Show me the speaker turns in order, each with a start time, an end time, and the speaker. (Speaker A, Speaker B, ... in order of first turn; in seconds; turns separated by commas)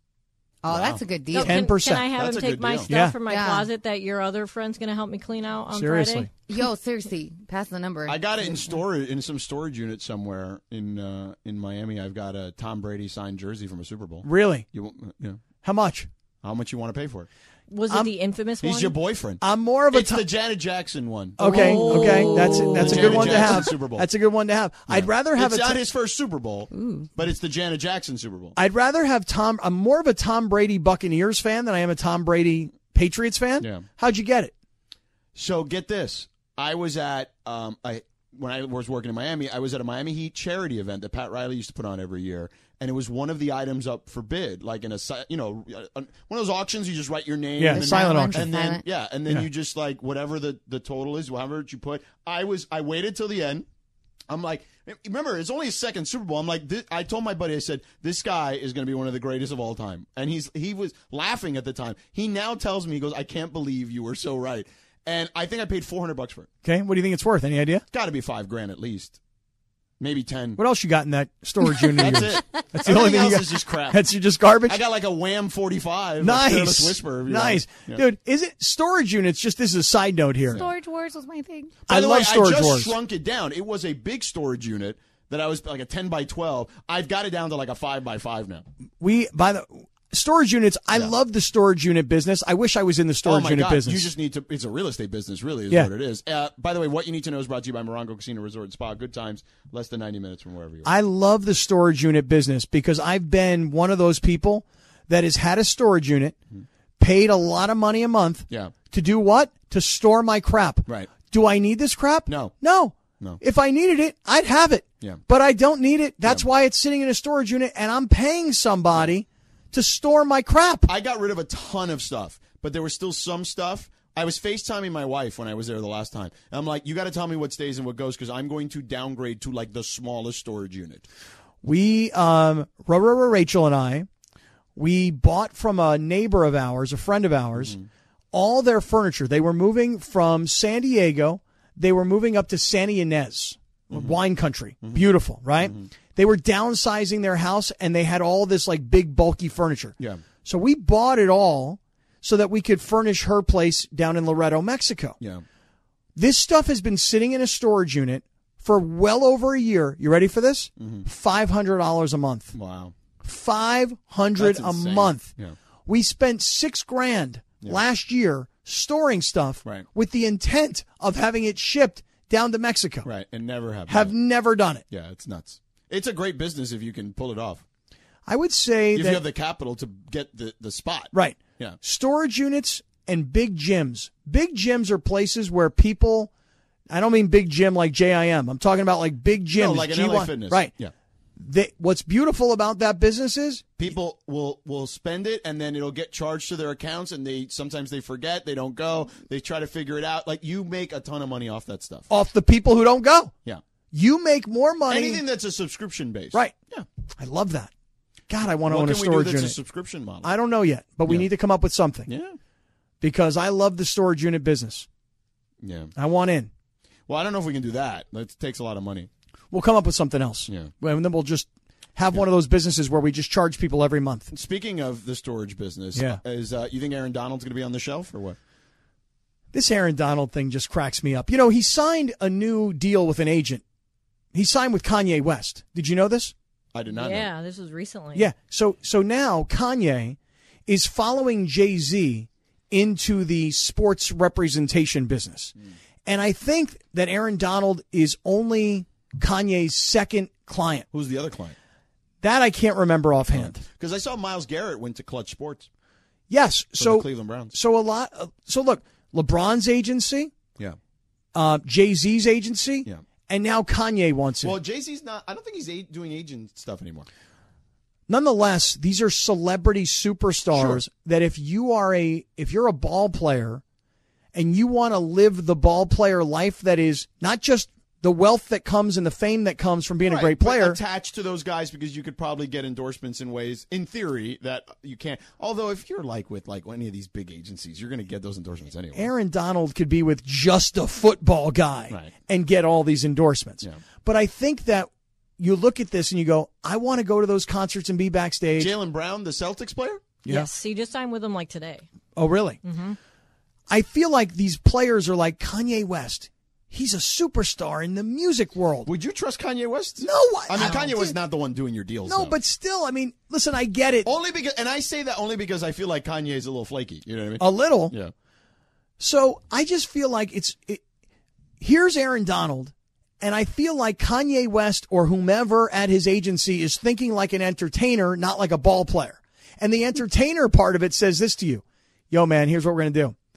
Speaker A: 0.6-1.6, Speaker B: 0.7-1.0, Speaker C: 1.3-6.3, Speaker D: 1.4-2.1, Speaker B: 2.1-2.9, Speaker D: 2.9-3.2, Speaker A: 3.3-3.7, Speaker D: 5.7-6.3, Speaker A: 6.5-8.7, Speaker B: 8.1-15.4, Speaker D: 14.2-14.7, Speaker D: 15.6-16.1, Speaker B: 16.4-17.3, Speaker C: 17.7-18.9, Speaker B: 18.6-22.1, Speaker D: 19.4-20.3, Speaker D: 21.4-25.8, Speaker C: 21.4-23.4, Speaker B: 22.7-24.1, Speaker B: 24.9-28.6, Speaker A: 26.7-27.1, Speaker D: 28.6-34.5, Speaker B: 33.6-33.9, Speaker B: 35.4-53.7, Speaker D: 47.6-48.5, Speaker A: 47.7-48.8, Speaker B: 54.3-66.5, Speaker D: 66.6-67.8, Speaker B: 67.9-69.2, Speaker B: 70.0-70.6, Speaker D: 70.6-74.8, Speaker B: 72.0-74.0, Speaker B: 74.7-78.0, Speaker D: 76.2-80.7, Speaker A: 80.5-81.8, Speaker B: 81.9-88.6, Speaker D: 81.9-83.0, Speaker D: 89.0-94.1, Speaker B: 93.2-100.9, Speaker D: 100.8-106.4, Speaker D: 107.0-120.9, Speaker B: 112.3-112.5, Speaker B: 120.9-131.1, Speaker D: 131.6-134.1, Speaker D: 134.8-137.8, Speaker B: 137.6-137.9, Speaker D: 138.3-155.2, Speaker B: 143.9-144.2, Speaker B: 145.6-145.9, Speaker D: 156.2-162.5, Speaker B: 160.8-161.1, Speaker B: 162.5-162.9, Speaker D: 163.2-165.3, Speaker B: 164.4-165.6, Speaker D: 165.9-173.1, Speaker B: 173.0-174.2, Speaker D: 173.9-174.8, Speaker B: 174.9-177.6, Speaker D: 178.3-179.2, Speaker B: 178.9-181.8, Speaker D: 181.1-186.3, Speaker D: 186.9-190.7, Speaker B: 189.5-190.9, Speaker D: 191.4-193.9, Speaker B: 193.8-202.1, Speaker D: 202.1-203.3, Speaker D: 203.9-205.2, Speaker B: 204.9-206.9, Speaker D: 207.2-207.7, Speaker D: 208.3-209.6, Speaker B: 208.7-210.3, Speaker D: 210.2-212.1, Speaker B: 212.1-212.4, Speaker D: 213.0-214.9, Speaker B: 215.6-215.9, Speaker D: 216.0-216.5, Speaker B: 217.1-219.1, Speaker D: 219.5-224.3, Speaker B: 220.5-220.7, Speaker B: 224.3-228.4, Speaker D: 225.9-226.2, Speaker D: 229.5-233.6, Speaker D: 234.3-236.3, Speaker B: 236.7-237.3, Speaker C: 236.9-238.3, Speaker D: 238.2-245.5, Speaker D: 246.1-250.9, Speaker B: 250.9-251.6, Speaker D: 252.2-253.6, Speaker B: 253.3-255.7, Speaker D: 256.3-260.3, Speaker B: 256.8-257.5, Speaker D: 261.3-264.6, Speaker B: 264.4-267.1, Speaker D: 268.1-273.6, Speaker B: 270.5-270.8, Speaker D: 274.3-280.8, Speaker B: 280.0-289.1, Speaker D: 288.9-298.7, Speaker B: 298.6-300.0, Speaker D: 300.2-300.5, Speaker C: 300.2-301.9, Speaker D: 302.2-302.6, Speaker C: 302.6-303.0, Speaker D: 303.7-308.9, Speaker B: 308.9-312.4, Speaker D: 310.0-311.2, Speaker D: 312.1-314.1, Speaker B: 314.1-318.1, Speaker D: 317.4-317.9, Speaker D: 319.0-320.8, Speaker D: 321.6-333.2